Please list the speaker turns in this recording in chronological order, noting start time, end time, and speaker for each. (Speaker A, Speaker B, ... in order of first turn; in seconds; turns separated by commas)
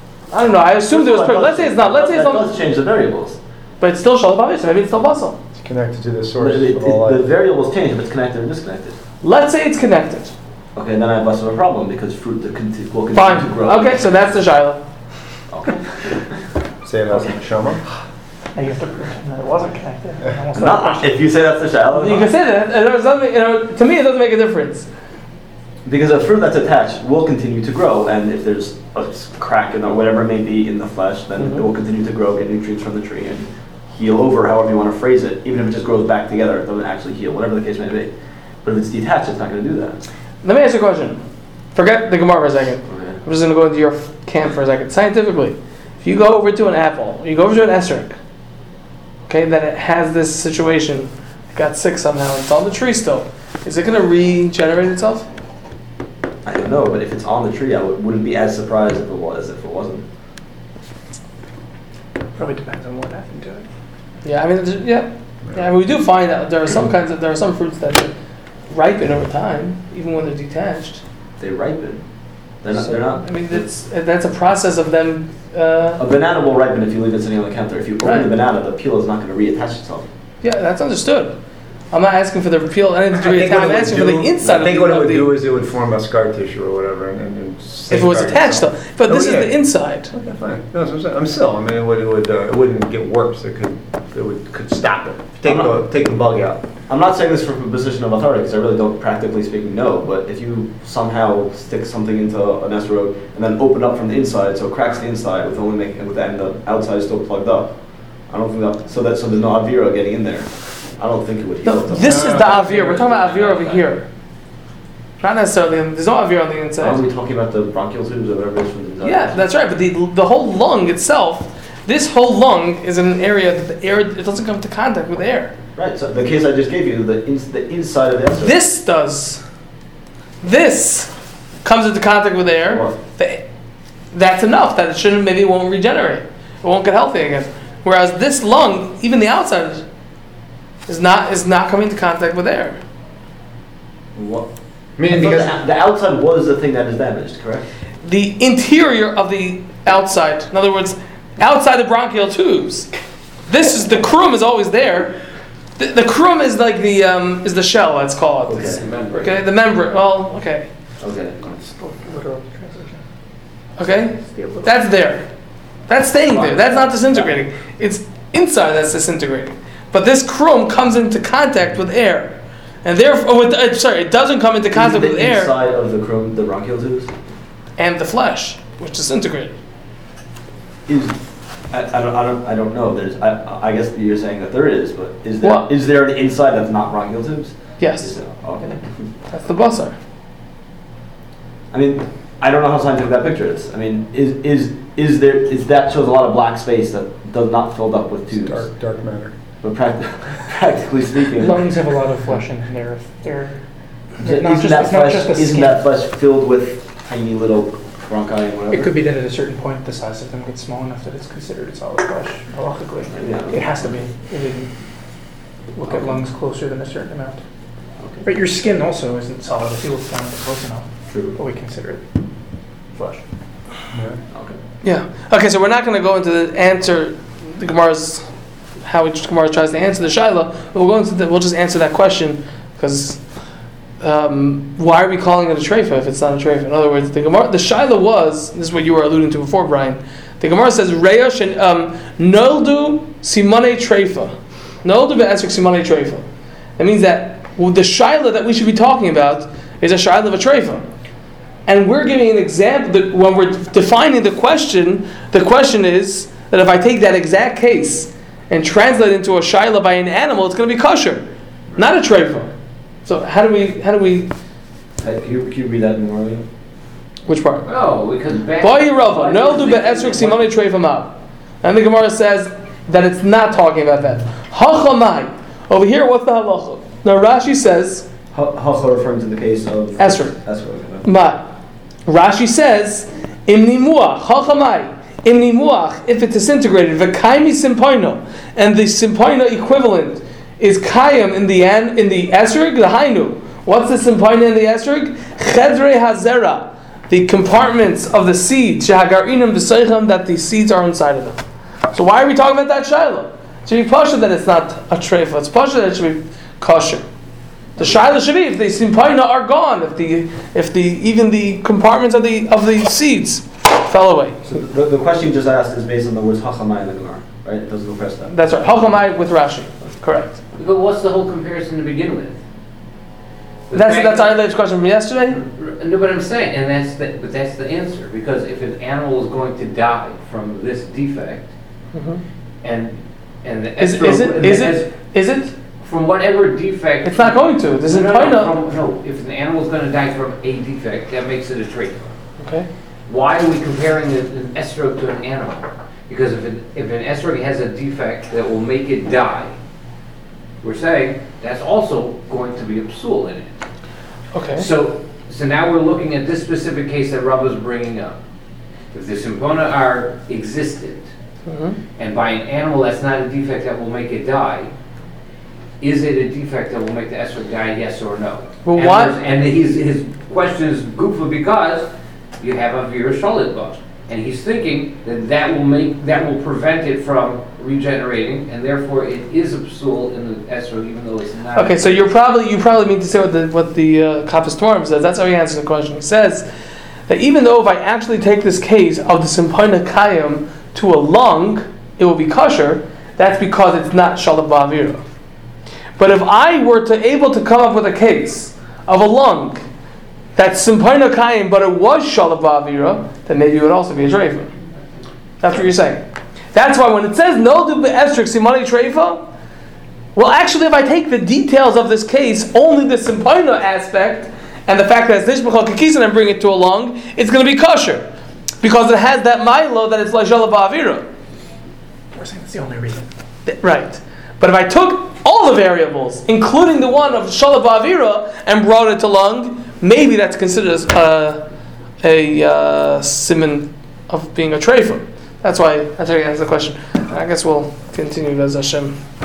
Speaker A: 0.3-2.5, Speaker B: 0.9-3.4, Speaker A: 3.8-5.4, Speaker C: 5.5-7.3, Speaker B: 6.4-9.0, Speaker A: 9.2-10.3, Speaker B: 10.7-14.1, Speaker A: 13.1-14.8, Speaker B: 15.5-16.4, Speaker C: 16.8-17.8, Speaker B: 17.1-17.4, Speaker D: 18.5-21.3, Speaker B: 20.5-22.3, Speaker A: 21.9-24.9, Speaker B: 25.8-38.1, Speaker B: 38.6-40.0, Speaker A: 40.4-41.2, Speaker A: 41.7-48.1, Speaker B: 42.9-43.2, Speaker A: 49.3-55.3, Speaker B: 56.4-60.0, Speaker D: 62.3-63.7, Speaker A: 64.2-68.1, Speaker A: 68.7-71.0, Speaker B: 71.4-72.0, Speaker B: 72.6-73.2, Speaker A: 72.8-76.0, Speaker B: 76.0-80.1, Speaker A: 78.0-78.3, Speaker A: 80.4-81.4, Speaker A: 81.9-85.3, Speaker C: 83.1-89.6, Speaker A: 87.9-90.1, Speaker C: 90.1-96.6, Speaker B: 95.4-95.8, Speaker B: 96.9-107.7, Speaker B: 108.3-112.3, Speaker A: 111.6-114.1, Speaker E: 112.0-113.9, Speaker A: 115.2-117.0, Speaker B: 116.8-119.5, Speaker A: 119.0-125.5, Speaker B: 125.8-128.6, Speaker A: 128.4-129.4, Speaker A: 130.4-131.1, Speaker A: 131.6-133.4, Speaker A: 134.1-139.8, Speaker A: 140.8-142.8, Speaker B: 144.1-144.5, Speaker C: 145.0-145.6, Speaker B: 145.1-147.7, Speaker A: 148.0-152.9, Speaker A: 153.5-155.2, Speaker A: 155.8-160.7, Speaker B: 158.5-158.9, Speaker E: 158.8-159.4, Speaker B: 161.0-161.4, Speaker D: 161.4-163.0, Speaker A: 163.8-165.3, Speaker D: 164.2-164.7, Speaker A: 165.9-175.5, Speaker B: 166.3-167.4, Speaker B: 174.7-177.1, Speaker A: 177.8-179.6, Speaker B: 180.9-181.2, Speaker B: 181.7-188.9, Speaker A: 185.4-185.7, Speaker A: 187.8-188.1, Speaker A: 189.3-189.9, Speaker B: 191.7-198.6, Speaker C: 198.3-199.3, Speaker B: 199.6-201.8, Speaker D: 201.3-203.6, Speaker B: 204.2-209.0, Speaker D: 204.2-205.8, Speaker D: 208.7-214.7, Speaker B: 213.1-213.9, Speaker D: 215.7-217.4, Speaker B: 215.9-216.2, Speaker B: 218.0-218.2, Speaker D: 218.2-222.0, Speaker B: 221.1-221.4, Speaker C: 223.9-224.2, Speaker B: 224.3-224.6, Speaker A: 224.8-228.3, Speaker A: 228.8-233.2, Speaker A: 234.0-244.3, Speaker A: 244.8-246.2, Speaker A: 246.8-250.8, Speaker A: 251.7-262.5, Speaker A: 263.0-264.3, Speaker B: 265.0-266.4, Speaker A: 267.3-267.7, Speaker E: 267.6-270.3, Speaker A: 268.6-278.1, Speaker B: 269.6-270.3, Speaker B: 278.3-281.1, Speaker A: 280.0-280.4, Speaker A: 281.0-281.5, Speaker A: 282.1-301.4, Speaker A: 301.9-307.0, Speaker A: 307.8-314.4, Speaker B: 307.8-308.0, Speaker B: 314.4-319.0, Speaker A: 318.3-320.4, Speaker E: 320.6-322.4, Speaker E: 323.7-324.4, Speaker A: 323.7-325.4, Speaker E: 325.4-331.5, Speaker A: 331.9-332.2, Speaker E: 332.6-334.9, Speaker A: 333.8-335.5, Speaker E: 335.8-342.1, Speaker A: 337.0-338.6, Speaker A: 342.4-342.7, Speaker E: 343.1-349.5, Speaker E: 350.6-353.6, Speaker A: 354.3-354.7, Speaker E: 354.5-358.2, Speaker E: 358.9-361.1, Speaker A: 361.4-361.8, Speaker E: 362.0-364.7, Speaker E: 365.8-371.9, Speaker A: 368.6-369.1, Speaker E: 372.4-382.1, Speaker A: 381.5-386.5, Speaker A: 387.1-395.0, Speaker A: 396.0-399.6, Speaker A: 400.4-404.5, Speaker A: 405.4-409.3, Speaker A: 410.1-418.1, Speaker A: 418.6-421.1, Speaker D: 422.1-423.1, Speaker A: 423.4-431.4, Speaker A: 432.0-439.0